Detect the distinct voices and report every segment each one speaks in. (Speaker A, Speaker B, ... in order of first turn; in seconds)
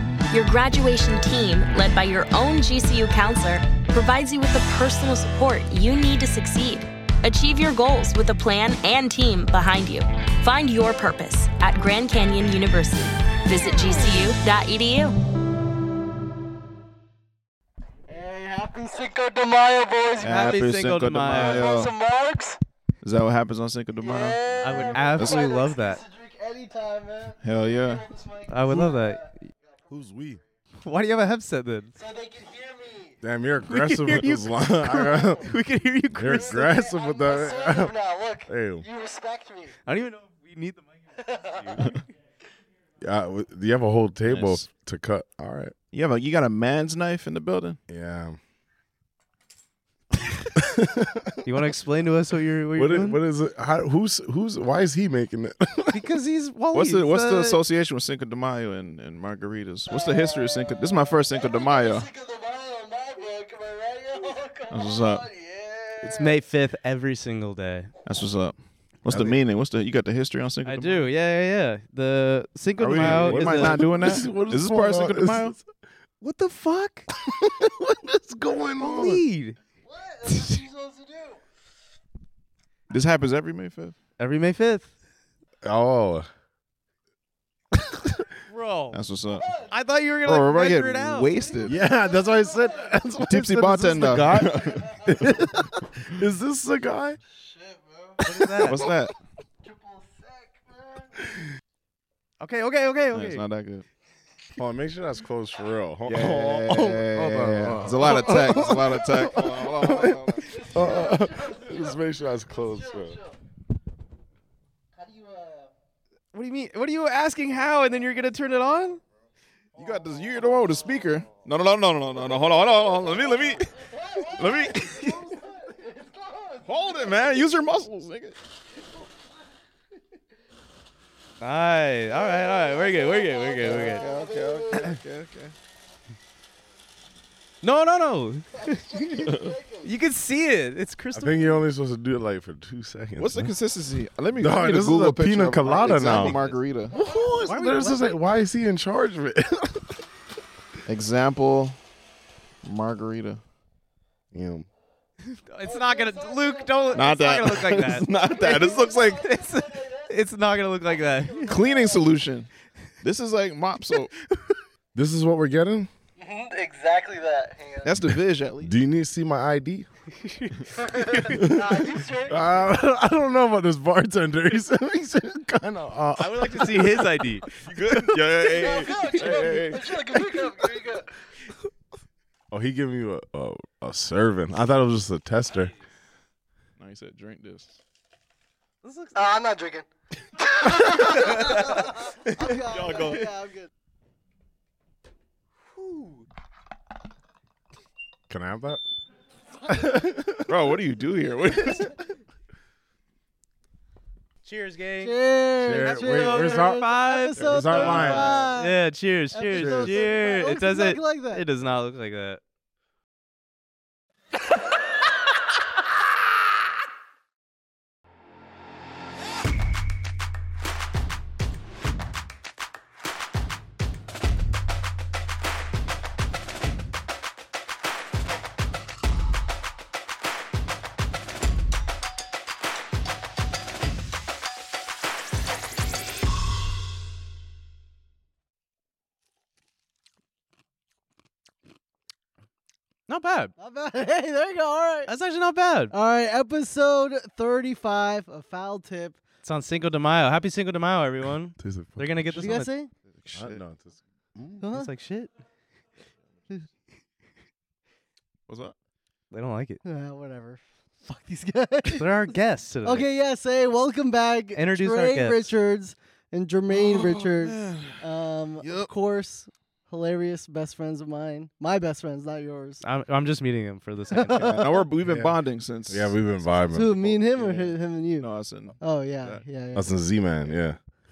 Speaker A: 0.3-15.2
Speaker B: 18.1-20.6, 21.3-22.6, 24.0-29.3, 32.0-33.1, 36.3-39.7, 41.3-41.9, 61.6-66.3, 79.9-81.4, 97.7-98.1, 99.6-101.1, 110.8-111.8, 115.0-115.7, 124.1-126.6, 132.2-134.8, 138.9-139.9, 156.0-156.7, 161.3-161.7, 166.2-167.9, 170.9-172.4, 178.6-181.1, 189.2-189.9, 190.6-193.7, 205.0-211.5, 243.6-245.1, 245.9-249.2, 252.3-252.9, 254.6-254.9, 259.8-272.8, 274.1-274.7, 276.7-278.3, 278.8-279.9
Speaker C: 20.2-21.9, 23.0-24.4, 27.4-28.1, 44.3-44.6, 45.9-47.8, 56.7-62.1, 64.7-65.3, 68.0-71.1, 72.9-75.6, 82.9-83.9, 88.9-89.5, 90.2-91.7, 93.3-94.8, 98.6-99.1, 103.1-103.8, 106.1-110.7, 119.8-125.2, 126.6-128.4, 133.7-135.5, 143.2-146.9, 150.9-151.8, 152.6-153.4, 156.9-159.3, 161.5-162.5, 163.0-164.1, 167.8-168.7, 177.6-180.0, 186.8-187.8, 192.7-193.2, 200.5-202.0, 207.4-208.5, 253.1-253.6, 258.5-258.8, 266.7-268.0, 268.6-268.9, 274.4-279.4
Speaker D: 20.2-21.7, 24.6-26.0, 28.5-29.2, 30.8-31.9, 33.7-36.6, 39.9-41.9, 51.4-53.2, 55.9-57.6, 66.0-67.9, 70.6-73.8, 76.2-77.1, 78.8-79.6, 80.2-80.6, 84.2-84.9, 88.5-89.0, 89.7-91.3, 98.2-98.8, 102.4-103.4, 116.3-119.0, 131.4-134.1, 137.6-141.6, 145.9-146.5, 147.4-148.0, 155.3-161.6, 170.2-171.4, 176.2-177.5, 188.8-189.3, 190.8-193.2, 195.8-196.2, 204.4-205.2, 205.8-212.4, 243.1-243.5, 245.1-245.9, 249.4-252.7, 254.7-255.3, 259.3-259.8, 261.9-263.1, 264.6-265.5, 272.8-274.6
Speaker E: 29.9-30.4, 33.2-35.6, 36.1-38.0, 38.5-38.9, 43.0-45.7, 47.9-48.4, 50.6-51.4, 52.8-56.0, 69.1-69.4, 72.8-75.6, 77.2-79.2, 85.6-86.3, 91.6-97.2, 104.6-113.2, 141.1-143.5, 144.4-150.0, 154.3-154.7, 164.9-165.9, 168.6-169.9, 171.3-177.2, 182.5-185.7, 198.3-198.8, 199.7-200.5, 205.6-208.5, 209.5-210.0, 251.6-252.6, 253.3-254.7, 275.1-275.4, 275.9-276.9, 279.7-280.8